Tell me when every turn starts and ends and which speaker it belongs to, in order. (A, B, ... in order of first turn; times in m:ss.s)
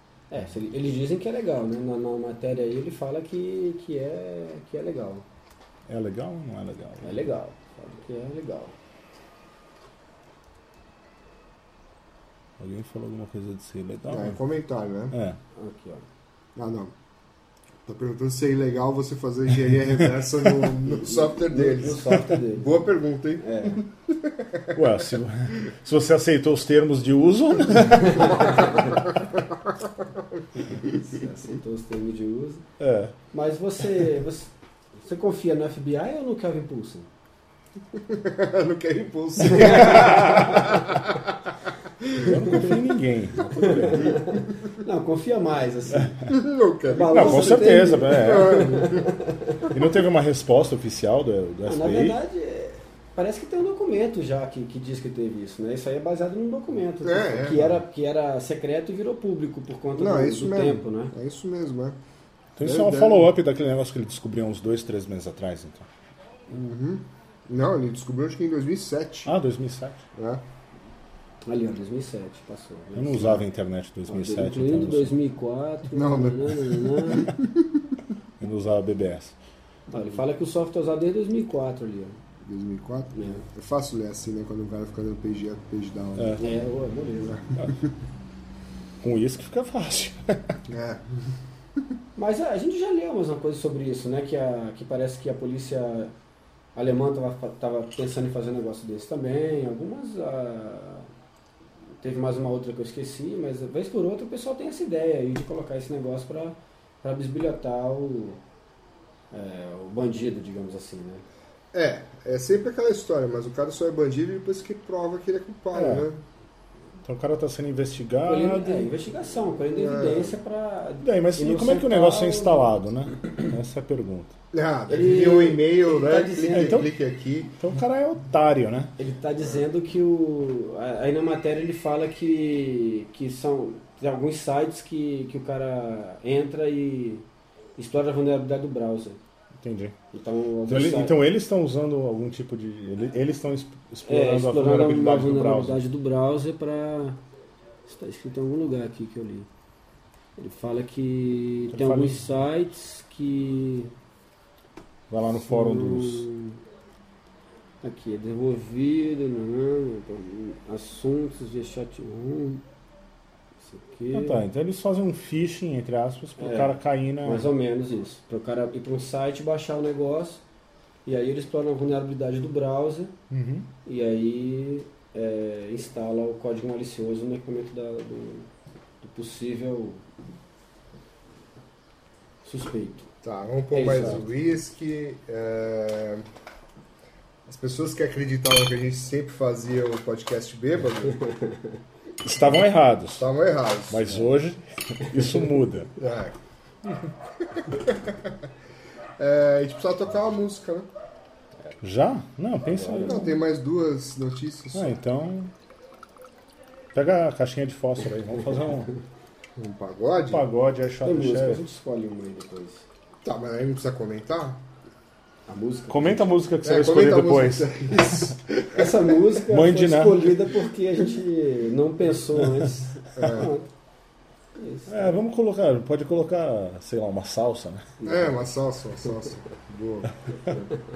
0:00.3-0:05.2 A
0:05.9-0:07.3 B
0:07.0-0:08.8 A
0:12.6-0:14.4 B
0:14.1-0:15.2 C
0:15.1-0:15.4 B
0:15.6-0:16.0 A
0:16.6-0:16.9 C
0:17.8-0:24.9 C
0:19.8-0:20.7 B
0:20.9-0:22.8 A
0:23.4-0:23.8 A
0:24.7-0:28.8 B
0:27.9-0:29.0 A
0:29.2-0:30.9 C
0:30.7-0:32.6 A
0:32.8-0:33.2 B
0:33.3-0:37.1 A
0:38.0-0:41.4 C
0:39.4-0:40.9 A
0:39.6-0:40.7 B
0:42.0-0:42.8 C
0:42.2-0:44.2 B
0:43.6-0:46.2 A
0:46.0-0:46.3 B
0:46.3-0:49.1 C
0:46.9-0:49.7 A
0:47.1-0:48.8 B
0:49.7-0:52.2 B
0:51.7-1:01.2 A
0:57.0-0:57.8 C
1:00.0-1:02.0 C
1:02.6-1:05.9 B
1:02.6-1:03.3 C
1:06.5-1:09.3 C
1:09.3-1:10.0 B
1:10.2-1:10.4 C
1:11.4-1:13.4 A
1:13.0-1:15.2 B
1:14.1-1:17.3 A
1:15.9-1:18.0 C
1:18.4-1:19.4 B
1:19.9-1:22.2 A
1:22.4-1:26.4 C
1:23.1-1:23.5 A
1:26.2-1:26.4 B
1:26.4-1:27.5 A
1:29.0-1:30.6 B
1:30.7-1:31.3 C
1:32.2-1:36.1 A
1:36.8-1:41.1 A
1:42.0-1:48.4 A
1:49.3-1:51.2 A
1:51.7-1:56.2 C
1:55.7-1:56.1 B
1:57.0-1:58.9 B
1:58.2-2:02.7 A
1:59.7-2:00.4 C
2:01.0-2:04.4 B
2:04.5-2:07.6 C
2:04.9-2:06.8 A
2:06.5-2:06.9 B
2:07.6-2:08.9 B
2:09.0-2:17.2 A
2:17.8-2:19.2 A
2:19.6-2:20.0 B
2:20.1-2:21.2 A
2:20.7-2:25.8 B
2:24.1-2:27.2 A
2:27.9-2:29.5 A
2:30.4-2:33.9 A
2:31.7-2:32.4 B
2:35.1-2:36.3 B
2:35.4-2:36.6 A
2:37.8-2:42.6 A
2:43.6-2:44.4 A
2:44.1-2:47.5 B
2:46.4-2:50.4 A
2:51.1-2:53.1 A
2:53.3-2:53.7 B
2:53.8-2:58.5 A
2:59.0-3:00.0 A
3:02.4-3:03.1 A
3:03.2-3:06.3 C
3:03.7-3:04.3 A
3:07.5-3:11.2 C
3:11.2-3:11.8 A
3:12.2-3:13.3 B
3:13.1-3:14.3 C
3:13.9-3:15.9 B
3:16.0-3:16.4 C
3:17.4-3:18.4 C
3:19.2-3:20.9 C
3:21.8-3:23.3 B
3:22.7-3:23.4 A
3:23.0-3:25.0 C
3:24.7-3:25.5 B
3:27.0-3:28.9 B
3:29.6-3:30.5 C
3:30.3-3:31.6 B
3:31.0-3:32.9 A
3:33.2-3:34.6 C
3:35.5-3:36.3 A
3:35.9-3:38.3 B
3:36.6-3:39.2 C
3:38.7-3:43.7 A
3:39.5-3:40.4 B
3:43.2-3:43.5 C
3:44.6-3:45.2 A
3:44.9-3:47.9 B
3:48.0-3:48.4 A
3:48.0-3:50.1 C